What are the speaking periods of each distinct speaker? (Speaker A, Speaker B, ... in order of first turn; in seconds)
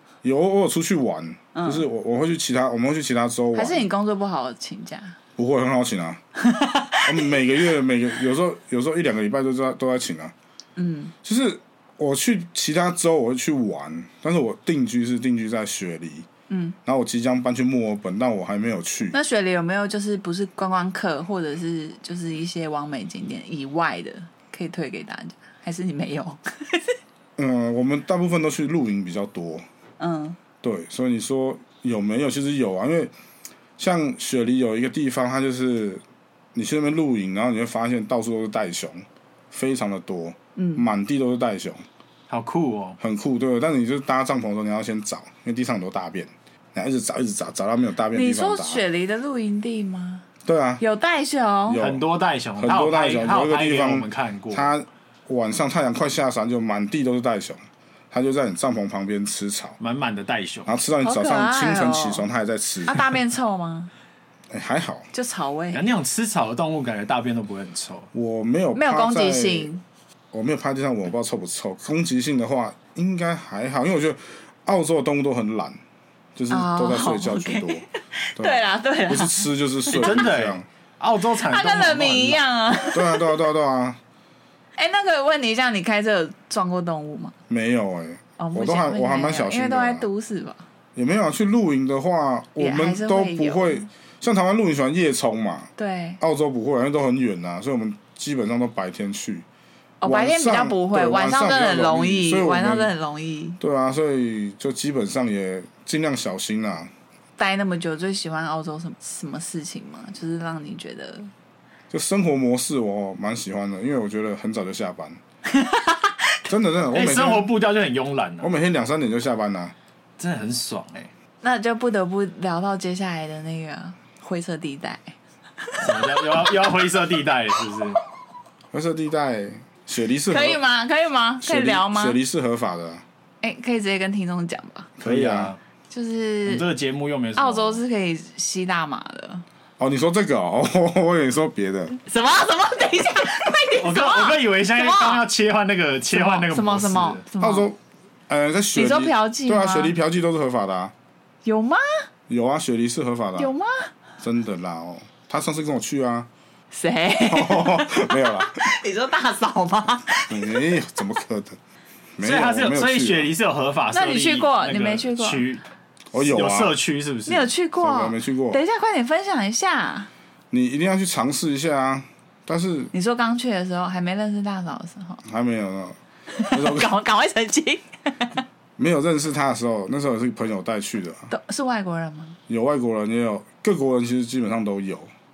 Speaker A: 0.2-3.9, 5.4-6.2, 7.0-10.3, 11.2-16.3, 16.8-19.2, 27.4-29.6, 30.6-33.1, 33.8-36.0, 36.5-41.8, 43.0-48.8, 50.5-50.8, 51.7-52.0, 52.5-59.8, 60.6-63.1, 64.5-65.1, 68.1-69.7, 70.3-75.8, 76.3-80.6, 82.9-84.0, 87.5-90.0, 91.0-99.4, 100.0-102.9, 103.6-106.9, 111.9-115.2, 116.5-117.5, 118.4-119.7, 128.7-130.6, 131.4-133.0, 135.0-135.5, 139.8-142.0, 147.4-147.8, 148.3-150.9, 152.3-153.5, 154.2-156.3, 157.3-158.6, 160.3-161.6, 162.2-163.3, 166.1-166.7, 167.8-168.6, 170.5-172.9, 175.2-176.0, 176.5-176.9, 178.8-181.3, 182.5-185.1
Speaker B: 1.5-1.8, 3.5-5.2, 6.4-7.3, 10.8-11.1, 16.5-16.8, 19.1-26.9, 30.0-30.4, 40.5-40.8, 48.1-50.2, 50.8-51.8, 61.0-62.2, 62.9-63.9, 65.1-65.8, 68.7-69.8, 76.5-80.2, 81.4-83.4, 84.8-87.3, 88.4-90.6, 92.6-93.8, 95.8-96.2, 100.0-103.6, 107.4-111.3, 115.5-116.3, 121.4-126.5, 130.3-132.2, 133.4-134.9, 135.9-136.7, 137.3-139.4, 142.0-145.2, 146.1-147.7, 148.8-149.9, 151.4-151.8, 153.4-153.9, 156.7-160.8, 163.9-165.4, 167.3-170.1, 172.9-175.2, 176.3-178.4, 181.3-182.4
Speaker C: 42.3-43.0, 51.8-54.7, 59.8-60.7, 65.7-68.1, 79.9-82.4, 116.9-118.5, 120.2-121.1, 125.8-128.0, 135.0-135.6, 136.4-137.8, 143.8-147.2, 162.2-165.6, 166.2-167.5